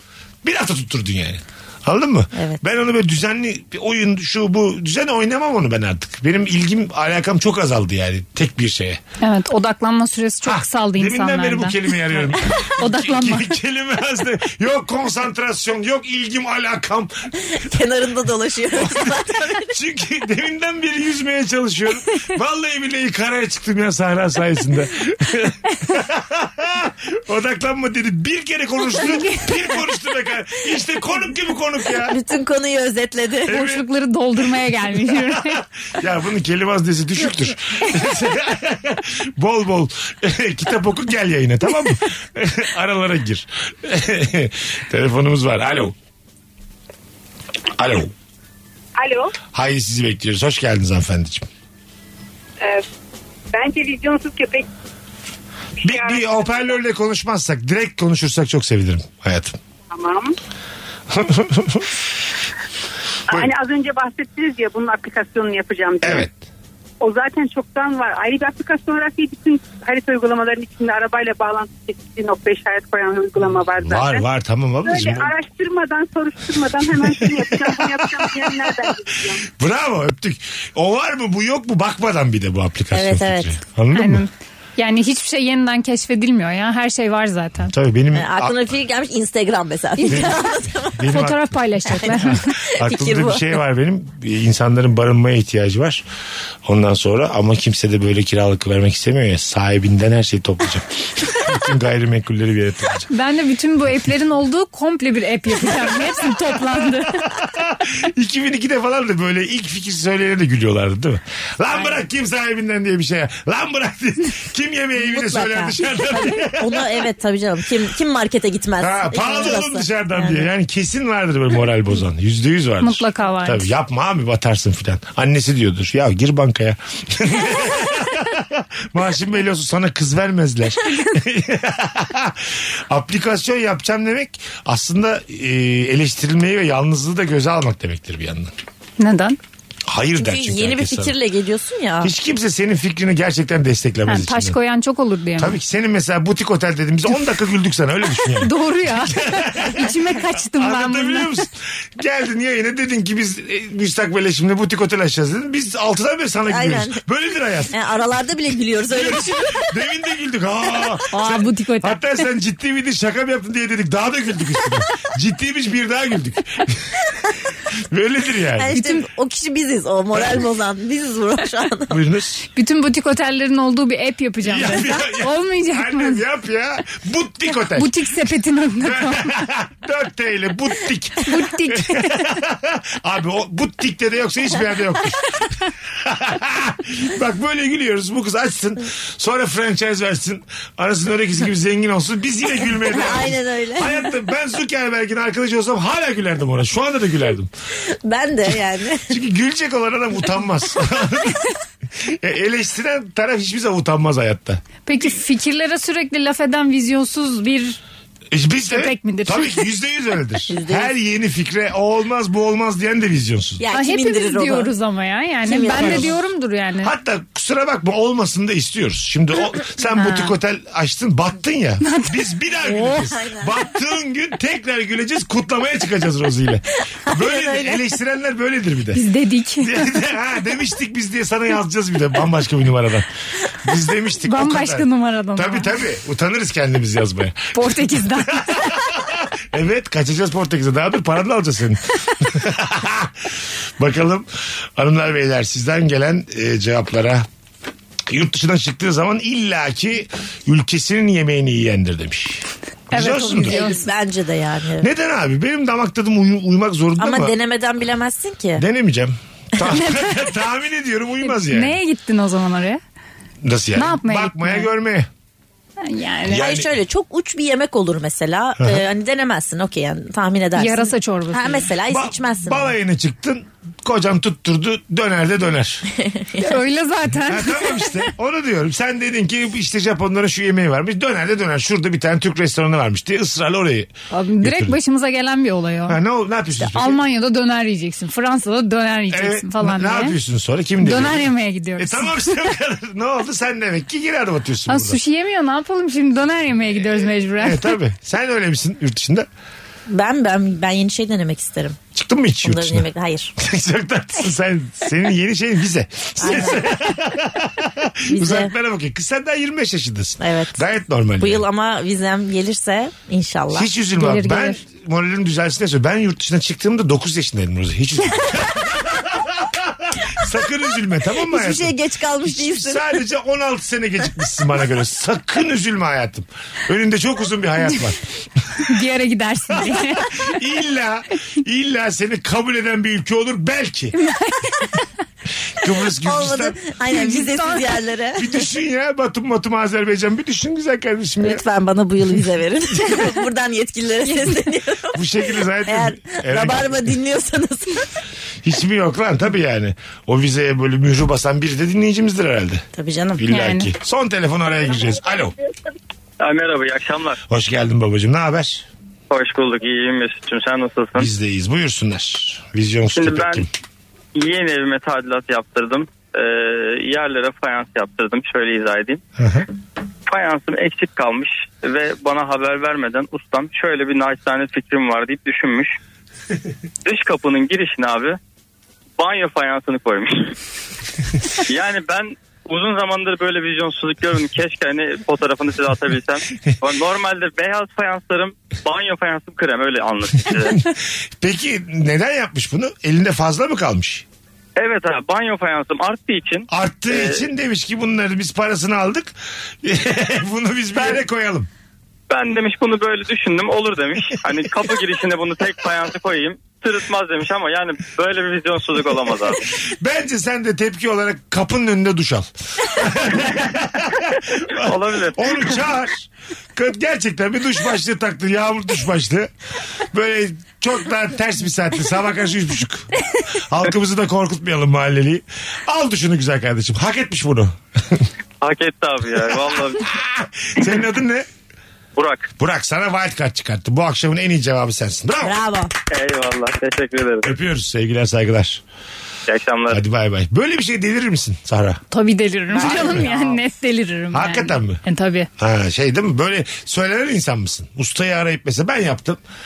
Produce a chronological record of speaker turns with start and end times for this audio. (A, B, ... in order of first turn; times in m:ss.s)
0:00.4-0:09.0 A
0:09.2-0:11.8 B
0:10.4-0:17.5 A
0:12.8-0:13.5 B
0:17.5-0:19.7 C
0:18.7-0:32.2 A
0:29.1-0:29.5 B
0:32.1-0:33.6 C
0:33.5-0:33.8 A
0:33.5-0:35.6 B
0:34.8-0:45.9 A
0:47.8-0:48.1 A
0:49.0-0:49.3 D
0:49.5-0:51.5 A
0:53.5-0:54.7 D
0:55.8-0:56.7 D
0:55.8-0:59.6 A
0:59.9-1:00.4 D
1:01.1-1:02.0 A
1:03.3-1:06.3 D
1:06.0-1:06.4 A
1:07.0-1:14.2 D
1:13.8-1:15.3 A
1:14.8-1:19.4 D
1:19.5-1:24.2 A
1:22.9-1:23.6 C
1:23.9-1:27.7 B
1:27.6-1:28.7 A
1:28.1-1:31.0 C
1:30.0-1:30.4 B
1:30.1-1:36.0 A
1:31.1-1:32.5 B
1:31.9-1:33.4 C
1:36.6-1:43.1 A
1:43.1-1:47.4 B
1:45.6-1:57.1 A
1:55.0-2:00.5 C
1:58.8-2:18.5 A
2:02.8-2:03.7 B
2:10.9-2:11.2 B
2:19.0-2:19.4 B
2:19.9-2:21.2 A
2:20.2-2:22.1 C
2:22.0-2:24.6 A
2:24.1-2:25.6 B
2:25.4-2:37.8 A
2:28.4-2:31.4 B
2:36.5-2:37.0 C
2:37.7-2:39.7 C
2:38.9-2:47.0 A
2:41.1-2:42.0 B
2:47.8-2:48.8 A
2:48.6-2:52.0 C
2:48.7-2:49.0 B
2:51.9-2:52.4 A
2:52.6-2:56.2 B
2:54.4-2:58.3 A
2:57.7-2:59.4 B
2:58.8-3:17.5 A
3:01.2-3:02.3 B
3:12.8-3:14.1 C
3:17.9-3:19.1 C
3:19.1-3:24.6 A
3:24.9-3:27.8 B
3:28.3-3:33.6 A
3:28.7-3:29.7 B
3:30.5-3:30.9 C
3:33.6-3:34.7 C
3:33.7-3:36.9 B
3:35.4-3:36.2 C
3:35.7-3:36.2 A
3:36.8-3:49.1 A
3:40.0-3:40.3 C
3:42.6-3:43.5 C
3:47.1-3:47.8 C
3:48.9-3:49.9 B
3:49.6-4:07.3 A
3:54.2-3:55.8 B
3:57.5-3:58.7 B
4:08.1-4:13.7 A
4:12.9-4:13.8 B
4:13.2-4:14.9 C
4:14.8-4:17.4 A
4:17.0-4:18.6 C
4:18.6-4:21.8 A
4:21.2-4:22.8 B
4:23.4-4:25.1 A
4:23.8-4:24.7 B
4:25.8-4:26.4 B
4:26.3-4:26.7 A
4:26.3-4:32.7 C
4:28.6-4:28.8 A
4:30.6-4:31.7 B
4:31.9-4:35.9 A
4:36.0-4:36.6 C
4:36.4-4:38.1 B
4:37.2-4:44.8 A
4:44.1-4:46.0 B
4:45.9-4:47.0 A
4:46.6-4:50.2 B
4:49.1-4:55.0 A
4:50.8-4:52.5 B
4:54.7-4:57.8 B
4:56.7-4:59.3 A
4:59.9-5:01.8 C
5:01.9-5:11.5 A
5:02.4-5:03.3 C
5:06.2-5:06.7 C
5:08.1-5:08.5 C
5:10.2-5:10.6 C
5:11.2-5:13.7 C
5:13.5-5:28.0 A
5:14.0-5:14.6 B
5:21.2-5:22.9 C
5:28.6-5:30.1 B
5:29.5-5:34.0 A
5:34.0-5:34.8 B
5:35.6-5:36.6 A
5:35.9-5:38.3 C
5:36.9-5:37.7 B
5:38.2-5:41.4 A
5:41.2-5:45.0 C
5:44.9-5:47.0 A
5:45.6-5:47.9 C
5:48.4-5:52.7 A
5:52.8-5:53.2 C
5:53.2-5:55.4 A
5:53.3-5:53.7 B
5:56.2-5:57.2 E
5:57.3-5:58.7 A
5:59.1-6:01.1 E
6:01.0-6:03.5 A
6:02.9-6:03.4 E
6:04.1-6:09.0 E
6:09.2-6:09.5 A
6:10.1-6:15.8 E
6:16.8-6:18.2 E
6:19.0-6:20.4 E
6:21.4-6:30.6 E
6:30.3-6:34.0 A
6:34.6-6:37.3 E
6:36.5-6:41.5 A
6:42.1-6:49.4 E
6:49.3-6:59.3 A
6:54.6-6:55.5 E
6:59.9-7:08.1 A
7:08.4-7:09.9 E
7:09.7-7:11.3 A
7:12.0-7:12.3 E
7:12.4-7:15.4 A
7:15.2-7:15.7 C
7:15.9-7:17.3 E
7:17.2-7:18.6 A
7:19.3-7:19.8 E
7:19.7-7:21.8 A
7:21.9-7:25.3 B
7:22.5-7:23.4 C
7:22.6-7:23.1 A
7:24.1-7:24.8 A
7:25.4-7:29.2 A